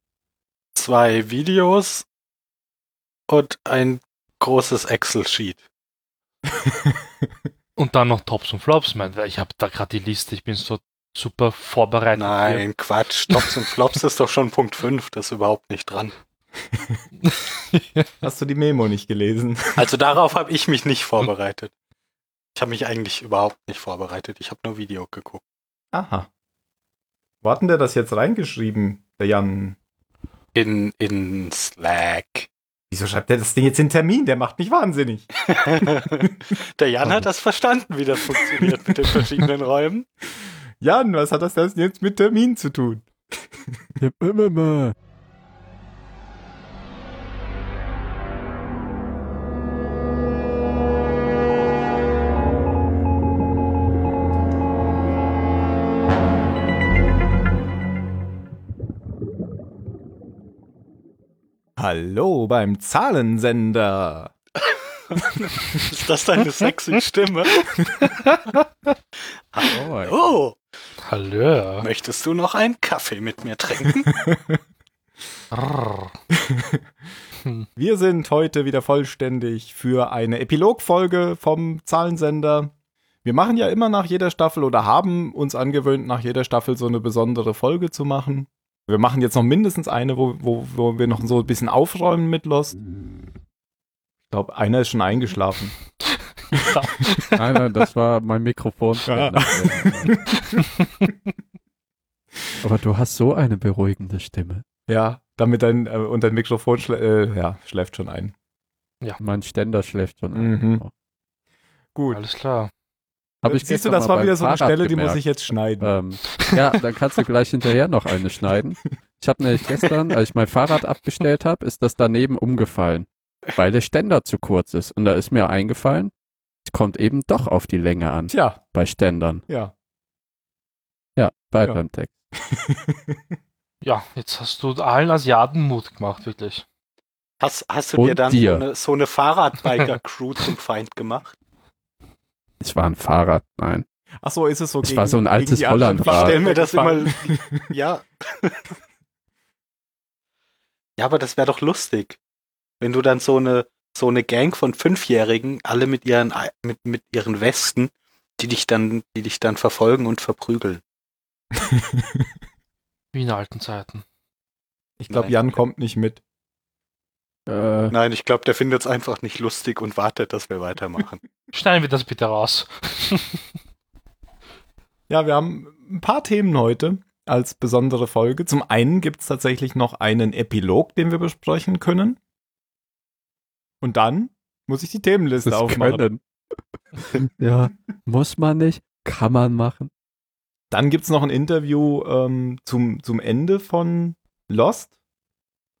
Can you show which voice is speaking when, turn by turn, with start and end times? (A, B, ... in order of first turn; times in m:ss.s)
0:00.8-0:02.0 A
0:03.3-0:05.6 A
0:07.8-0:12.7 B
0:12.2-0:16.1 A
0:13.3-0:13.6 B
0:17.2-0:18.1 B
0:18.2-0:19.9 C
0:19.8-0:21.7 A
0:22.5-0:25.4 A
0:25.9-0:26.3 C
0:27.4-0:29.8 C
0:30.5-0:32.5 A
0:32.9-0:35.3 C
0:35.4-0:40.1 A
0:40.8-0:43.0 C
0:44.0-0:44.9 D
1:01.8-1:04.3 C
1:04.7-1:07.7 A
1:09.5-1:10.6 A
1:09.6-1:10.4 D
1:11.1-1:11.9 B
1:11.8-1:14.1 A
1:14.1-1:14.6 C
1:15.5-1:16.1 B
1:16.3-1:16.8 C
1:17.8-1:22.7 C
1:23.2-1:32.8 C
1:34.3-1:35.7 C
1:36.6-1:37.3 B
1:37.3-1:40.2 D
1:39.0-1:40.6 C
1:42.6-1:44.6 D
1:44.9-1:48.3 C
1:49.2-1:50.9 D
1:50.3-1:50.8 C
1:51.9-1:52.2 C
1:52.1-1:52.7 B
1:53.4-1:55.2 D
1:53.4-1:55.9 C
1:55.8-2:06.1 D
2:06.6-2:09.4 D
2:08.3-2:08.6 C
2:09.5-2:09.7 C
2:11.2-2:12.1 D
2:12.5-2:13.2 C
2:13.8-2:16.6 B
2:17.4-2:21.4 A
2:18.0-2:18.6 D
2:22.6-2:23.8 D
2:24.2-2:27.7 C
2:24.8-2:26.4 D
2:26.0-2:28.7 A
2:31.0-2:32.2 A
2:32.8-2:40.8 A
2:43.1-2:44.0 B
2:45.0-2:46.2 C
2:45.1-2:45.6 A
2:47.5-2:47.9 D
2:47.9-2:51.2 A
2:51.5-2:53.4 B
2:55.1-3:02.2 C
3:03.8-3:06.0 C
3:05.4-3:06.2 D
3:07.0-3:09.9 D
3:10.7-3:14.9 C